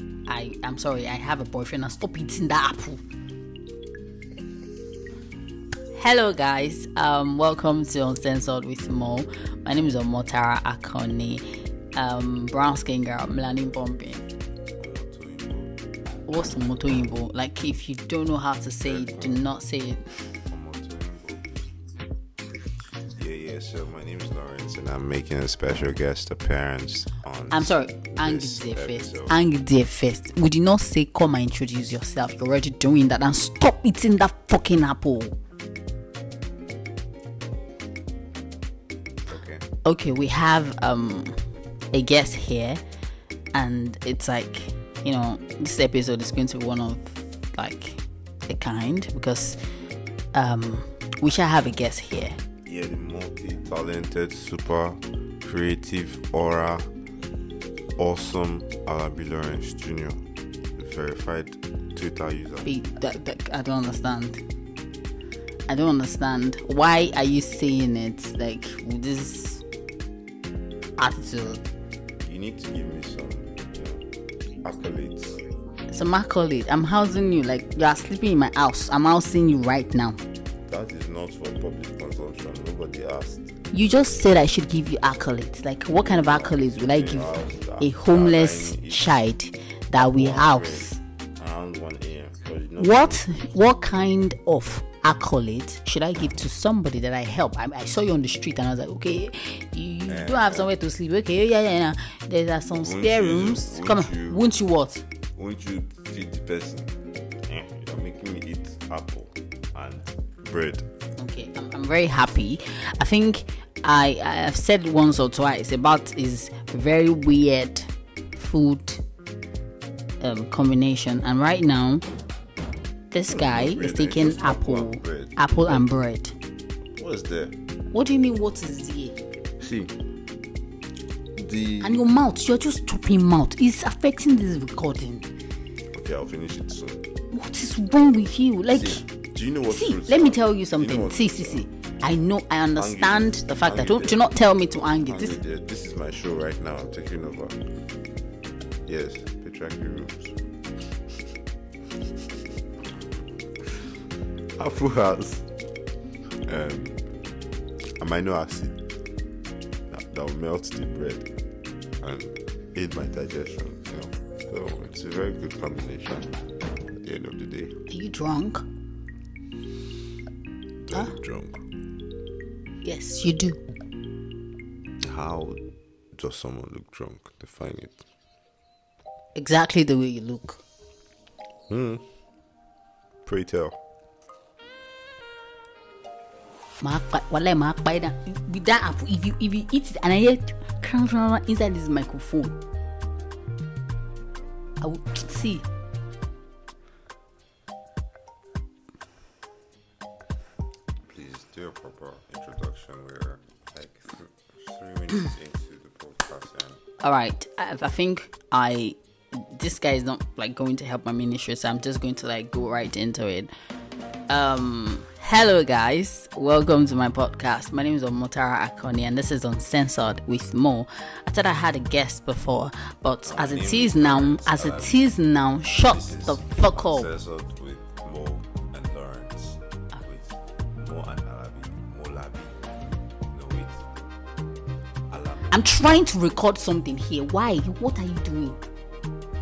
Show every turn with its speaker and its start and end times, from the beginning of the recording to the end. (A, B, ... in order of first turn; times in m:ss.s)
0:00.3-0:03.0 A
0:05.9-0:11.4 A
0:11.9-0:14.2 A
0:14.8-0:15.7 B
0:16.3-0:20.0 A
0:18.8-0:19.4 B
0:20.5-0:21.4 B
0:23.1-0:29.4 B
0:27.5-0:35.3 A
0:39.3-0:39.6 B
0:39.8-0:41.4 A
0:41.9-0:42.8 A
0:43.5-0:49.6 A
0:50.3-0:52.4 A
0:52.6-0:56.9 B
0:58.0-1:00.2 B
1:00.8-1:02.7 B
1:02.6-1:04.4 A
1:05.7-1:09.6 A
1:11.0-1:11.6 A
1:12.2-1:14.0 B
1:14.6-1:15.4 B
1:15.9-1:20.2 A
1:20.7-1:23.5 B
1:23.7-1:31.0 A
1:25.9-1:29.2 B
1:29.9-1:30.9 B
1:31.4-1:33.2 B
1:32.8-1:45.0 A
1:40.1-1:40.7 B
1:42.7-1:44.4 B
1:45.4-1:46.9 B
1:47.4-1:50.9 B
1:51.2-1:59.0 A
2:00.2-2:02.0 A
2:03.1-2:06.4 A
2:03.3-2:05.9 B
2:06.9-2:07.6 B
2:07.9-2:09.2 A
2:09.6-2:09.9 B
2:11.4-2:12.1 B
2:11.8-2:15.3 A
2:15.9-2:17.0 B
2:17.3-2:19.0 A
2:18.7-2:21.6 B
2:19.7-2:25.4 A
2:22.8-2:24.2 B
2:24.9-2:27.6 B
2:28.8-2:30.4 B
2:34.6-2:35.4 B
2:36.5-2:37.0 B
2:38.0-2:38.8 B
2:39.9-2:41.3 B
2:42.0-2:46.3 B
2:46.9-2:47.7 B
2:47.9-2:48.6 A
2:50.8-2:51.6 B
2:52.8-2:53.6 A
2:55.0-2:55.6 B
2:56.1-2:58.0 B
2:59.4-3:00.6 A
3:01.7-3:02.0 B
3:03.2-3:03.8 B
3:06.8-3:12.6 A
3:14.8-3:15.6 A
3:21.0-3:26.8 B
3:27.0-3:33.5 A
3:34.3-3:47.1 A
3:43.2-3:45.0 B
3:45.7-3:52.6 B
3:53.3-3:53.8 B
3:55.1-3:55.7 B
3:55.5-3:58.6 A